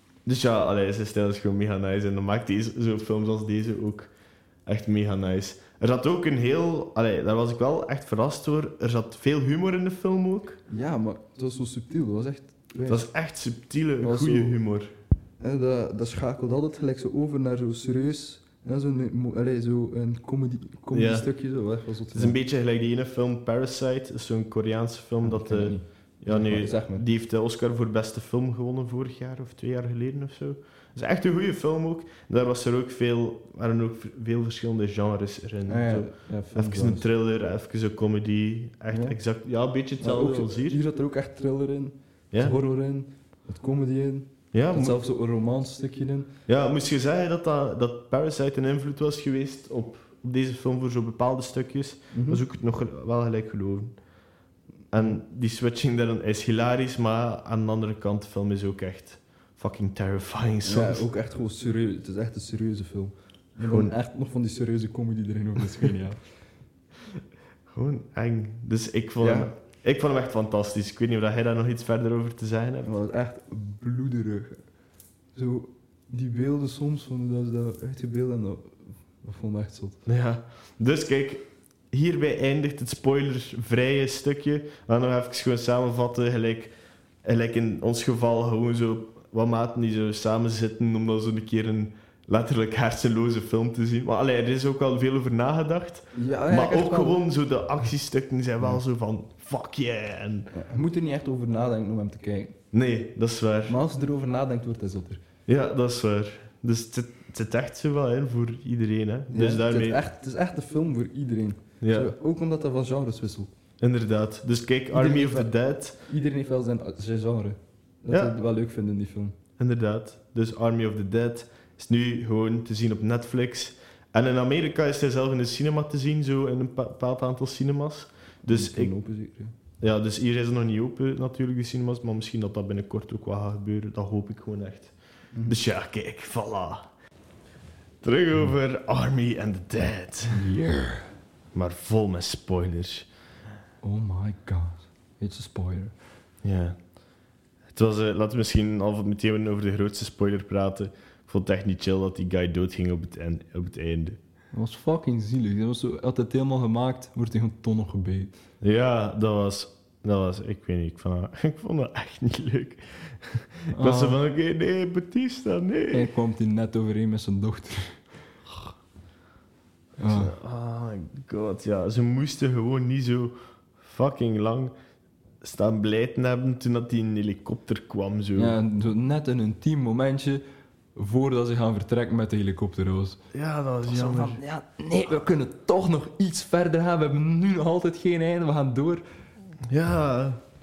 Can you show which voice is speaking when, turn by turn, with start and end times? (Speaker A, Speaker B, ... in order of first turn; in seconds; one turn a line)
Speaker A: 0.2-4.1
Speaker A: 4.7-10.6
Speaker B: 10.7-13.1
Speaker A: 12.9-14.9
Speaker B: 14.0-14.6
Speaker B: 15.4-22.4
Speaker A: 20.9-21.3
Speaker A: 22.1-40.8
Speaker B: 25.2-27.0
Speaker B: 35.7-37.1
Speaker B: 38.9-39.1
Speaker B: 40.0-46.3
Speaker A: 42.3-42.6
Speaker A: 44.5-45.0
Speaker A: 46.5-53.9
Speaker B: 52.1-52.4
Speaker A: 54.9-61.0
Speaker B: 60.6-66.2
Speaker A: 63.6-63.9
Speaker A: 67.7-72.9
Speaker B: 69.2-69.5
Speaker B: 72.8-74.6
Speaker B: 75.3-80.0
Speaker A: 80.0-86.7
Speaker A: 87.2-100.5
Speaker B: 96.1-97.2
Speaker B: 100.5-102.5
Speaker A: 102.7-103.8
Speaker B: 103.7-105.2
Speaker A: 105.5-110.0
Speaker B: 109.3-113.5
Speaker A: 111.8-112.1
Speaker A: 113.8-116.0
Speaker B: 114.9-119.3
Speaker A: 118.1-118.3
Speaker A: 119.6-128.9
Speaker B: 128.5-129.5
Speaker A: 129.8-134.9
Speaker A: 135.4-136.9
Speaker A: 138.0-140.4
Speaker B: 140.3-141.1
Speaker A: 141.5-143.1
Speaker B: 143.8-145.9
Speaker A: 146.4-146.8
Speaker A: 147.7-154.2
Speaker B: 154.5-158.3
Speaker A: 158.6-166.1
Speaker B: 163.7-164.2
Speaker B: 165.9-168.0
Speaker B: 170.0-170.3
Speaker A: 170.1-174.7
Speaker A: 175.4-178.6
Speaker B: 178.3-180.4
Speaker B: 180.9-183.2
Speaker A: 183.3-184.4
Speaker B: 183.8-189.0
Speaker A: 189.7-190.4